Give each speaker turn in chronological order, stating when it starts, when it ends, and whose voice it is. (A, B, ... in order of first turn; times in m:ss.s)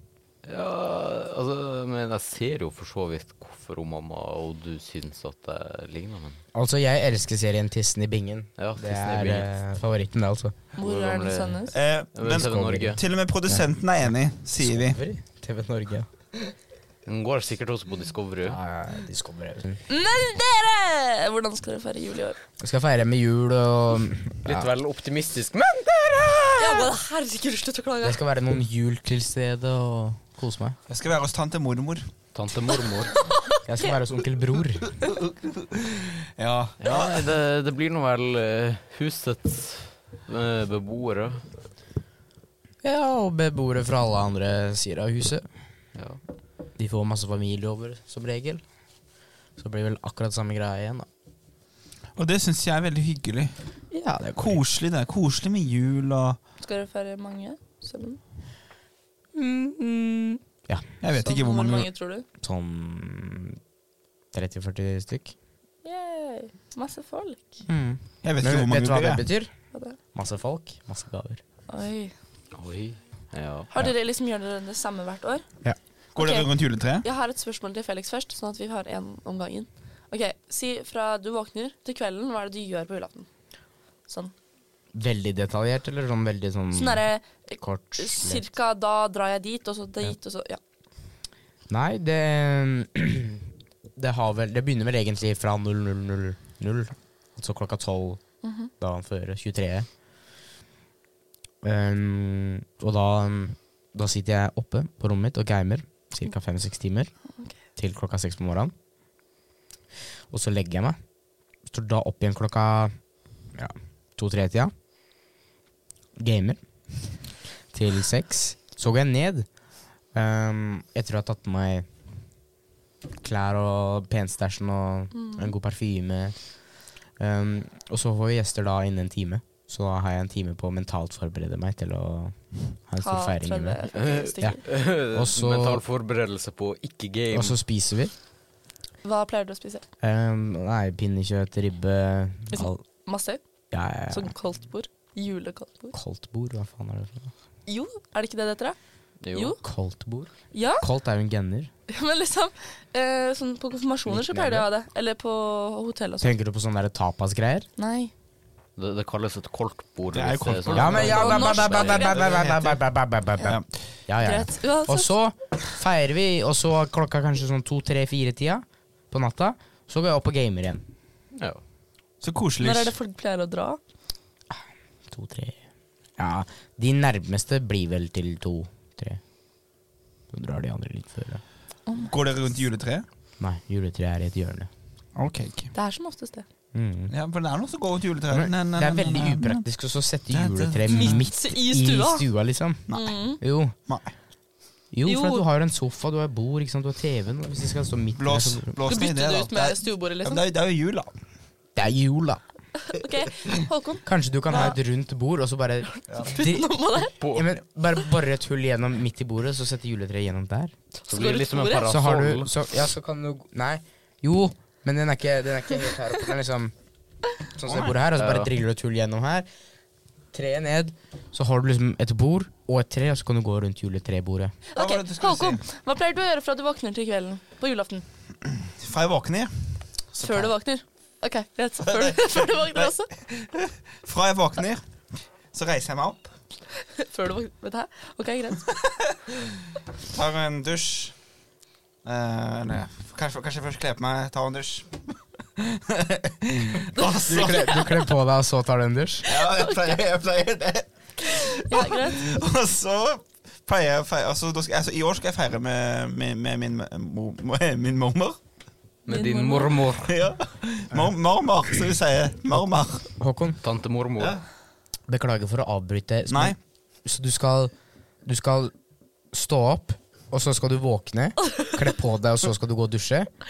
0:00.4-0:06.4 A
0:06.5-0:10.6 B
0:08.6-0:09.5 A
0:10.8-0:11.8 C
0:10.8-0:11.6 A
0:11.7-0:15.0 D
0:12.2-0:13.0 A
0:12.3-0:13.7 B
0:14.6-0:16.1 B
0:17.1-0:18.6 A
0:18.5-0:19.8 B
0:19.9-0:22.4 C
0:22.6-0:24.7 B
0:24.4-0:26.9 A
0:26.6-0:28.2 C
0:28.0-0:30.8 B
0:30.9-0:32.1 D
0:32.3-0:33.1 A
0:33.1-0:34.0 C
0:33.7-0:34.8 B
0:34.9-0:37.3 D
0:36.8-0:41.4 A
0:42.8-0:45.4 B
0:46.8-0:48.6 B
0:49.6-0:51.1 B
0:52.2-0:53.6 D
0:53.9-0:54.6 B
0:54.4-0:56.4 D
0:56.6-0:58.2 C
0:59.3-1:00.9 B
1:01.0-1:01.9 D
1:01.2-1:02.2 C
1:02.4-1:03.6 B
1:04.3-1:05.3 B
1:05.8-1:07.6 C
1:07.7-1:09.5 B
1:08.2-1:09.2 D
1:10.1-1:11.4 B
1:11.7-1:12.1 C
1:12.5-1:13.7 A
1:13.7-1:15.5 C
1:16.2-1:17.1 D
1:16.2-1:16.5 C
1:17.0-1:23.3 C
1:24.1-1:24.3 C
1:24.9-1:27.0 B
1:26.7-1:30.6 C
1:27.6-1:28.4 B
1:31.7-1:38.2 B
1:38.4-1:38.7 C
1:38.8-1:39.9 B
1:41.6-1:47.1 B
1:47.8-1:48.7 B
1:50.3-1:51.0 B
1:51.7-1:52.9 B
1:53.5-1:54.7 B
1:56.2-1:56.6 B
1:57.7-1:59.5 B
2:00.1-2:01.9 B
2:03.2-2:13.8 B
2:05.1-2:05.5 C
2:13.0-2:14.6 C
2:13.9-2:17.6 A
2:14.4-2:15.8 B
2:17.3-2:18.1 B
2:19.0-2:19.8 C
2:20.0-2:22.8 B
2:22.5-2:23.4 C
2:23.7-2:24.3 B
2:24.1-2:26.0 C
2:25.9-2:27.3 B
2:27.7-2:28.8 C
2:29.2-2:29.6 A
2:29.3-2:29.6 C
2:29.6-2:31.7 B
2:30.5-2:30.9 C
2:31.9-2:36.3 C
2:34.1-2:34.7 B
2:36.2-2:37.7 B
2:37.8-2:38.1 C
2:38.8-2:42.0 A
2:40.1-2:42.8 D
2:40.7-2:50.8 B
2:41.0-2:42.2 C
2:44.2-2:45.1 C
2:51.4-2:51.6 A
2:52.2-2:52.9 D
2:52.6-2:53.8 C
2:54.5-2:55.6 B
2:56.2-2:59.2 B
3:00.3-3:01.4 B
3:01.9-3:02.1 C
3:02.1-3:03.0 D
3:03.4-3:04.7 B
3:05.2-3:05.7 D
3:05.7-3:06.5 C
3:06.7-3:07.1 B
3:07.1-3:09.6 D
3:08.3-3:13.8 B
3:10.3-3:11.2 D
3:10.9-3:12.3 C
3:12.9-3:13.1 D
3:12.9-3:13.4 C
3:13.9-3:14.1 D
3:14.9-3:18.8 B
3:15.0-3:15.5 C
3:18.2-3:21.1 D
3:18.8-3:20.4 C
3:21.8-3:22.4 B
3:22.9-3:24.8 C
3:24.0-3:30.7 B
3:25.9-3:27.2 C
3:27.2-3:27.5 A
3:31.0-3:32.0 C
3:31.1-3:32.5 A
3:31.8-3:36.7 B
3:37.6-3:39.5 B
3:37.6-3:38.0 D
3:38.2-3:38.5 A
3:40.3-3:44.5 B
3:44.7-3:48.0 C
3:44.8-3:45.6 D
3:48.6-3:50.5 D
3:50.2-3:53.1 C
3:51.8-3:54.8 D
3:55.5-3:56.3 D
3:56.8-3:58.7 C
4:00.0-4:01.2 D
4:02.0-4:05.0 D
4:05.6-4:07.8 D
4:07.0-4:08.0 C
4:07.3-4:09.3 B
4:09.3-4:18.4 D
4:09.4-4:09.8 C
4:11.3-4:12.3 C
4:19.1-4:20.2 A
4:19.1-4:19.8 C
4:20.0-4:23.1 D
4:23.2-4:23.6 B
4:23.6-4:24.4 A
4:25.1-4:27.7 B
4:26.3-4:26.6 D
4:28.2-4:28.7 B
4:29.3-4:33.3 B